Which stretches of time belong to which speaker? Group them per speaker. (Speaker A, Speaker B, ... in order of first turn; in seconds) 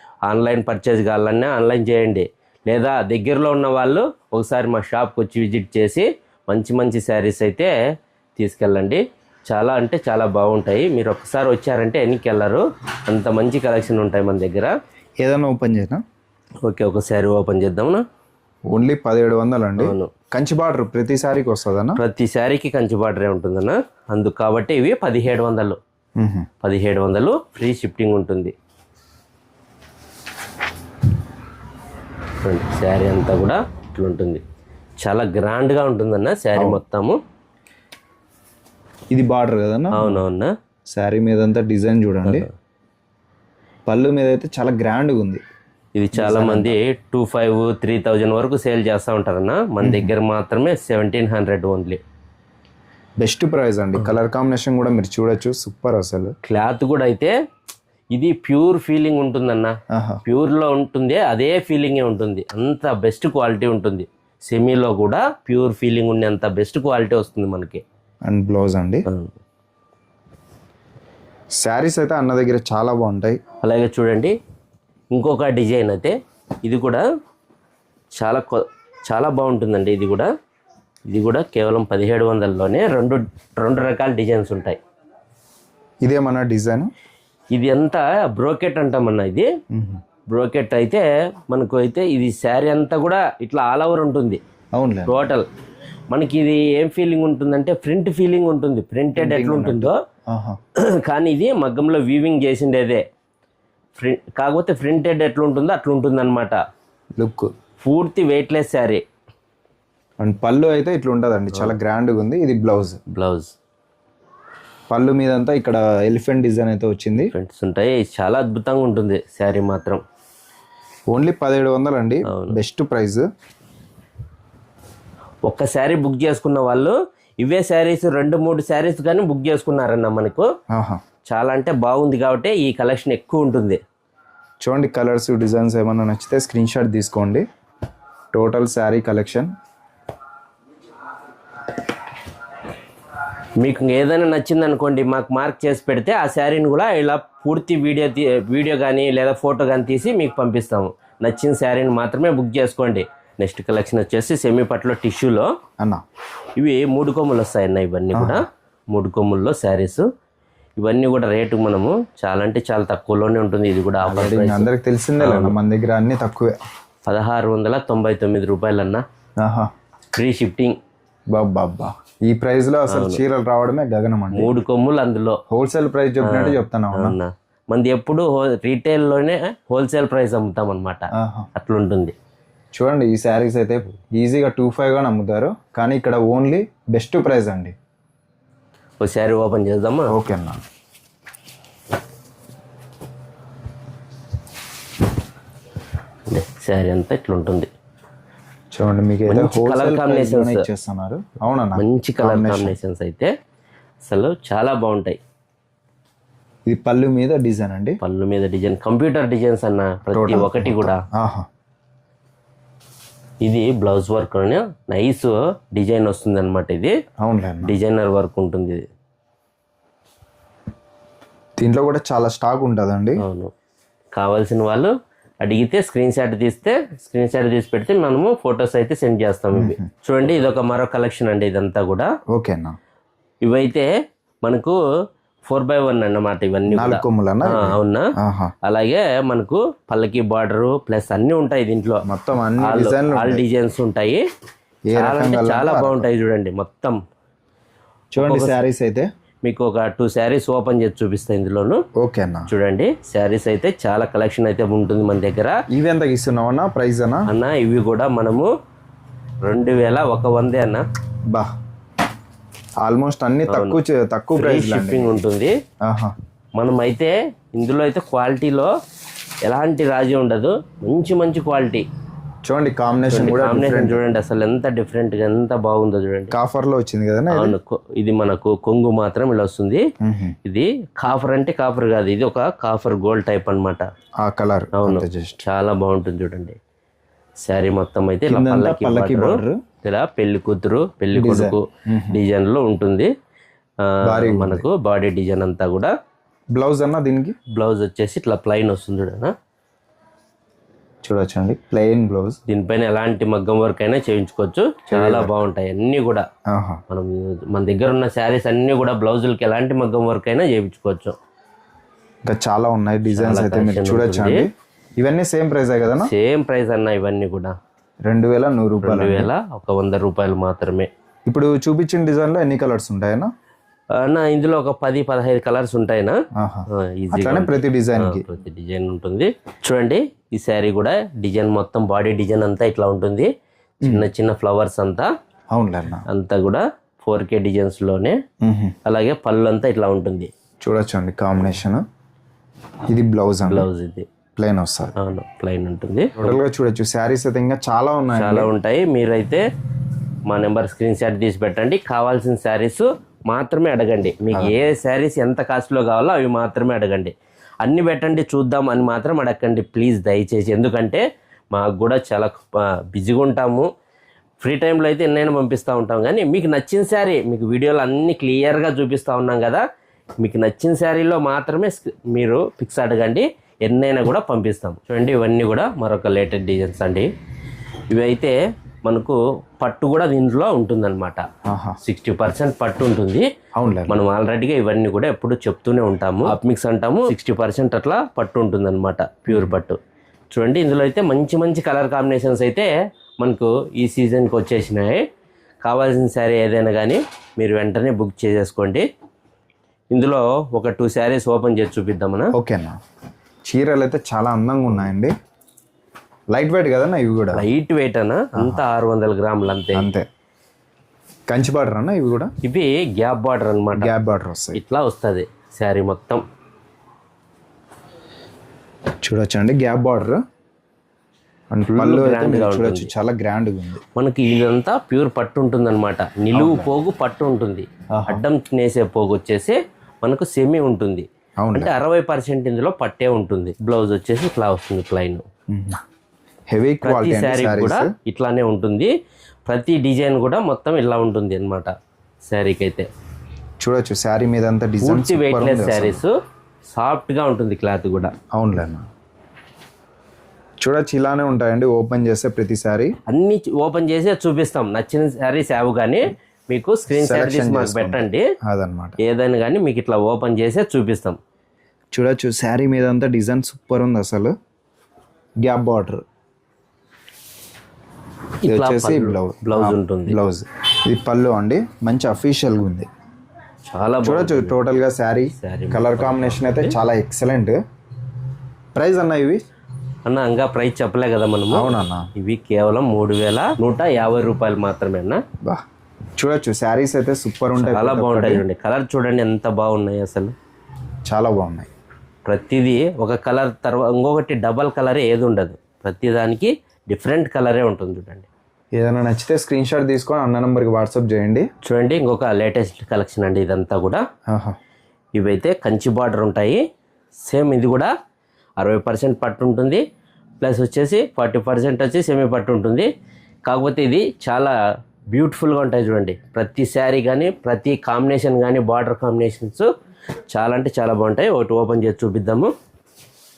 Speaker A: 0.3-7.7, 8.4-14.7, 16.6-18.0, 19.8-20.1, 22.0-25.8, 26.6-28.5, 32.4-34.4, 35.0-37.2, 39.9-40.5, 46.0-52.0, 56.4-57.3, 58.1-59.7, 60.2-67.8, 69.1-69.3, 73.6-74.3, 75.1-77.0, 78.2-80.3, 81.1-84.8, 87.5-89.5, 90.3-94.4, 95.1-95.5, 96.1-100.0, 100.8-103.0, 104.0-106.6, 107.8-109.0, 113.1-113.5, 117.3-120.0, 122.3-122.6, 125.4-130.4, 131.2-133.8, 143.6-155.5, 156.6-160.1, 160.8-164.7, 165.2-165.6, 167.1-169.0, 170.1-170.8, 172.9-173.2, 174.3-175.4, 176.2-182.1, 189.0-190.1, 196.3-197.7, 199.3-200.6, 201.8-203.3, 204.0-205.2, 208.0-211.0, 213.4-216.9, 217.6-218.8, 223.2-223.5, 224.1-232.1, 233.4-233.9, 234.4-234.8, 235.4-238.1, 238.6-242.0, 242.6-244.2, 244.9-247.0, 248.2-248.6, 249.4-251.8, 252.5-255.6, 257.3-258.5, 259.4-260.8, 263.5-263.8, 264.3-265.5, 266.6-268.7, 269.4-271.8, 273.1-276.3, 277.3-279.8, 280.4-283.8, 284.7-286.6, 287.4-293.1, 293.8-295.9, 297.5-299.3, 302.5-306.2, 306.9-311.1, 313.1-314.5, 316.0-317.6, 318.8-320.9, 323.9-326.2, 326.7-333.3, 333.8-335.1, 336.1-338.2, 338.8-340.3, 343.4-344.1, 345.0-346.4, 348.1-349.4, 350.3-363.7, 364.4-369.6, 370.2-377.1, 377.9-381.2, 381.8-383.3, 383.9-389.8, 390.3-395.0, 395.6-398.8, 399.9-402.3, 407.3-409.9, 412.4-413.9, 414.5-416.2, 421.8-422.9, 423.9-435.2, 436.8-438.9, 439.4-441.7, 442.3-442.9, 444.8-446.1, 446.7-448.1, 453.1-458.3, 459.0-461.2, 468.4-470.2, 473.7-474.6, 475.3-476.8, 480.1-485.2, 487.6-490.3, 492.3-498.3, 501.6-504.0, 505.2-506.6, 507.2-507.9, 508.6-509.8, 510.4-512.9, 513.5-514.5, 515.1-519.7, 520.3-522.5
Speaker B: 15.2-16.0, 18.7-22.0, 26.2-26.5, 36.5-36.8, 39.1-40.2, 40.9-42.5, 43.9-45.4, 46.1-46.8, 49.8-50.1, 53.2-56.3, 59.9-60.2, 68.2-69.0, 71.6-73.4, 86.0-86.9, 89.7-90.0, 94.7-95.1, 99.2-100.6, 107.2-107.5, 110.2-113.0, 114.9-117.3, 121.1-123.3, 130.7-131.0, 134.6-137.4, 138.3-139.5, 158.1-158.4, 164.0-166.6, 169.4-169.7, 171.3-174.5, 175.5-177.2, 181.1-181.5, 182.7-187.7, 190.1-190.6, 198.7-202.8, 206.7-208.0, 210.1-211.4, 217.2-217.7, 221.6-223.2, 229.5-229.8, 232.3-232.8, 236.7-238.5, 242.1-243.4, 244.9-246.1, 248.2-249.1, 252.0-252.5, 255.7-257.3, 262.8-265.2, 265.8-266.1, 272.4-274.0, 276.3-277.6, 280.0-280.4, 284.2-285.4, 288.3-289.6, 291.1-292.2, 294.1-294.6, 296.5-297.3, 301.0-302.4, 304.9-305.3, 306.5-306.8, 312.2-316.1, 318.0-319.3, 321.3-323.3, 326.4-328.2, 333.8-334.1, 335.5-336.1, 338.4-338.7, 340.6-341.8, 342.9-343.7, 344.4-344.9, 346.2-348.5, 381.4-381.8, 383.6-384.0, 389.3-389.5, 402.3-402.8, 403.4-405.1, 406.3-407.4, 408.4-408.6, 409.7-410.1, 411.3-412.3, 413.8-414.6, 419.0-420.2, 421.5-423.8, 426.3-426.7, 427.9-428.2, 431.4-431.7, 435.5-435.8, 436.5-437.9, 443.6-446.0, 448.3-448.9, 450.6-452.9, 456.9-459.0, 461.9-464.3, 465.4-466.0, 468.4-472.9, 474.0-477.6, 478.8-479.4, 481.5-482.1, 486.2-488.4, 491.1-491.7, 498.8-501.5, 504.3-504.6